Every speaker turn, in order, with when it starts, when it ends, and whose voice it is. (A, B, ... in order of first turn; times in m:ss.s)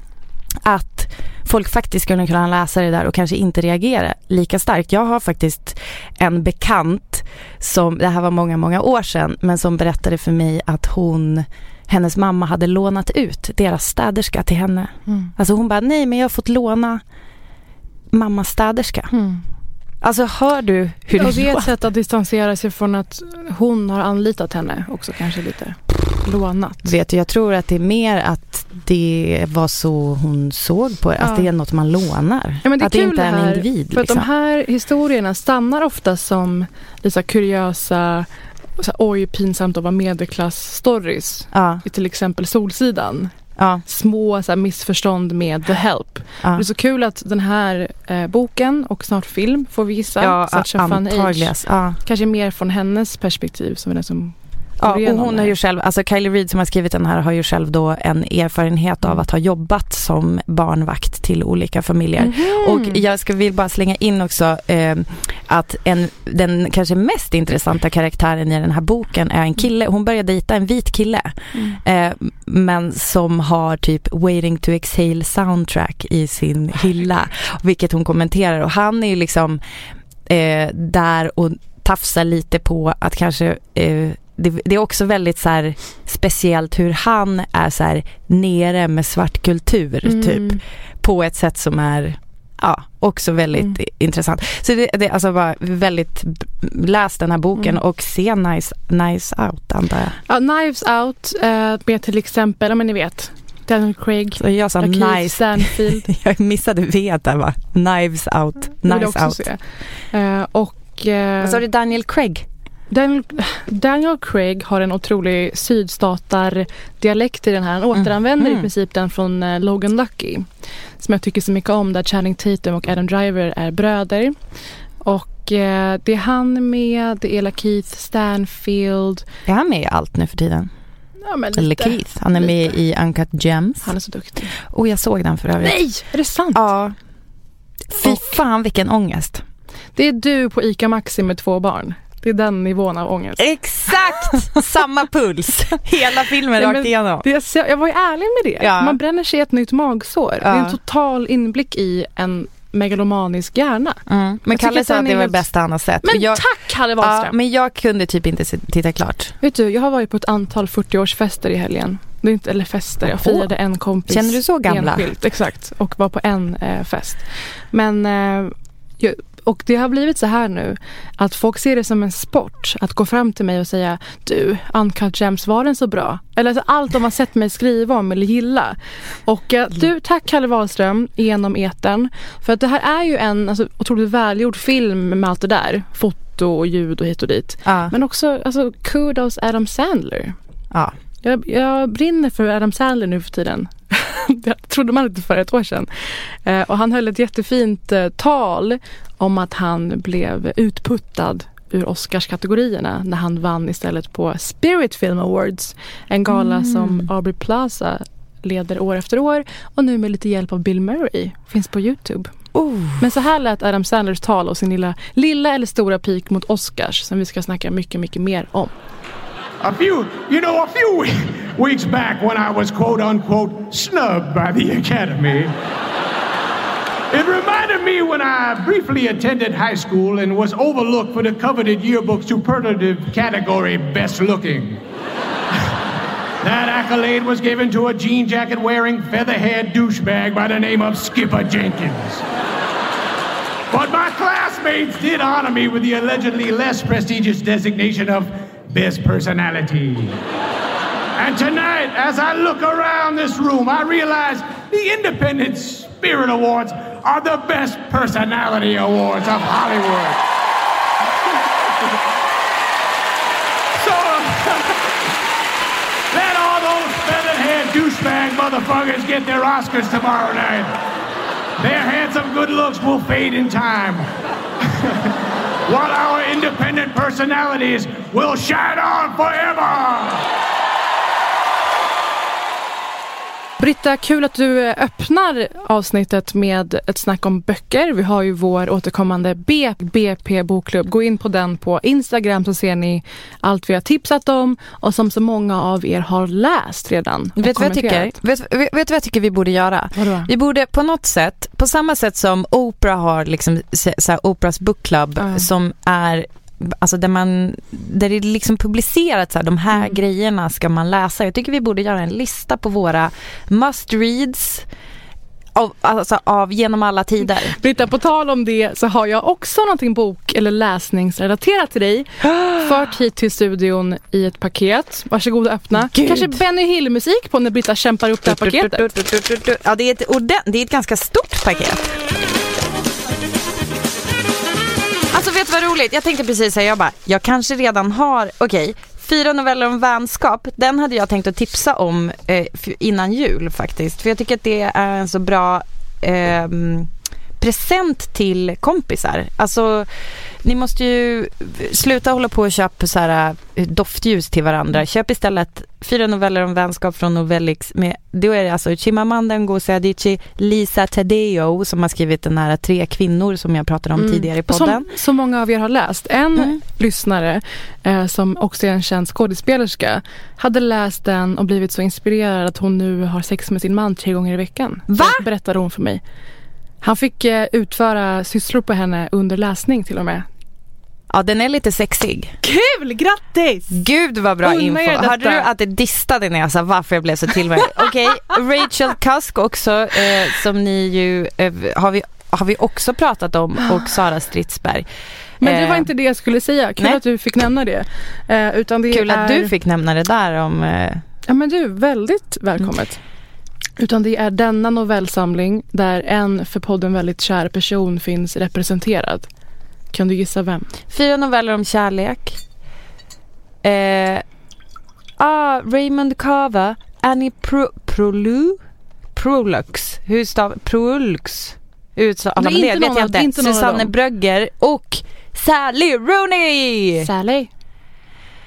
0:00.6-0:17.0 A
0:15.1-0:15.3 B
0:18.1-0:19.1 A
0:19.1-0:19.4 B
0:20.0-0:21.7 A
0:21.2-0:26.9 B
0:26.8-0:34.3 A
0:31.2-0:31.5 B
0:32.6-0:43.3 B
0:41.5-0:41.8 A
0:43.6-0:43.8 A
0:43.8-0:55.5 B
0:50.2-0:52.0 A
0:54.8-1:19.6 A
1:02.2-1:03.0 B
1:11.5-1:11.8 B
1:20.3-1:40.2 A
1:30.0-1:30.6 B
1:40.3-1:46.1 B
1:44.4-1:49.4 A
1:48.8-1:49.6 B
1:50.1-1:51.6 B
1:51.4-1:52.4 A
1:52.9-2:00.4 B
1:57.9-1:58.7 A
2:01.0-2:04.4 B
2:05.0-2:09.2 B
2:09.5-2:10.7 A
2:11.2-2:12.7 B
2:11.6-2:13.9 A
2:13.8-2:14.5 B
2:14.6-2:15.8 A
2:15.6-2:16.6 B
2:16.5-2:17.0 A
2:17.9-2:19.4 A
2:18.0-2:18.3 B
2:19.9-2:24.5 B
2:23.4-2:27.2 A
2:26.6-2:35.4 B
2:28.6-2:29.0 A
2:30.4-2:30.8 A
2:34.1-2:36.4 A
2:36.0-2:37.3 B
2:37.0-2:39.3 A
2:39.4-3:10.3 B
2:43.2-2:43.5 A
2:44.1-2:45.1 A
3:07.6-3:07.9 A
3:11.2-3:32.3 B
3:26.3-3:27.1 A
3:32.5-3:33.0 A
3:33.0-3:38.7 B
3:39.6-3:45.5 C
3:47.1-3:54.8 C
3:56.4-4:02.2 C
4:03.7-4:10.2 C
4:11.2-4:20.2 C
4:23.8-4:24.8 C
4:26.1-4:30.8 C
4:31.6-4:34.0 C
4:34.7-4:35.1 C
4:35.7-4:40.2 C
4:43.6-4:58.1 B
4:57.4-5:14.7 A
4:59.9-5:00.3 B
5:05.2-5:05.5 B
5:09.7-5:10.0 B
5:15.5-5:17.6 A
5:17.5-5:28.9 B
5:22.2-5:22.7 A
5:25.8-5:26.4 A
5:28.2-5:32.0 A
5:35.1-5:49.9 A
5:50.4-6:04.9 A
6:04.0-6:16.0 B
6:14.9-6:15.2 A
6:16.8-6:20.3 B
6:21.1-6:22.3 A
6:22.4-6:23.8 B
6:23.7-6:34.9 A
6:24.4-6:25.5 B
6:35.4-6:35.9 A
6:35.4-6:39.5 B
6:38.9-6:41.0 A
6:41.3-6:43.0 B
6:43.8-6:49.3 B
6:49.9-6:50.7 B
6:50.9-6:52.4 A
6:53.6-6:54.2 A
6:55.2-6:58.6 A
6:59.1-7:07.1 A
7:02.4-7:03.9 B
7:07.0-7:07.5 B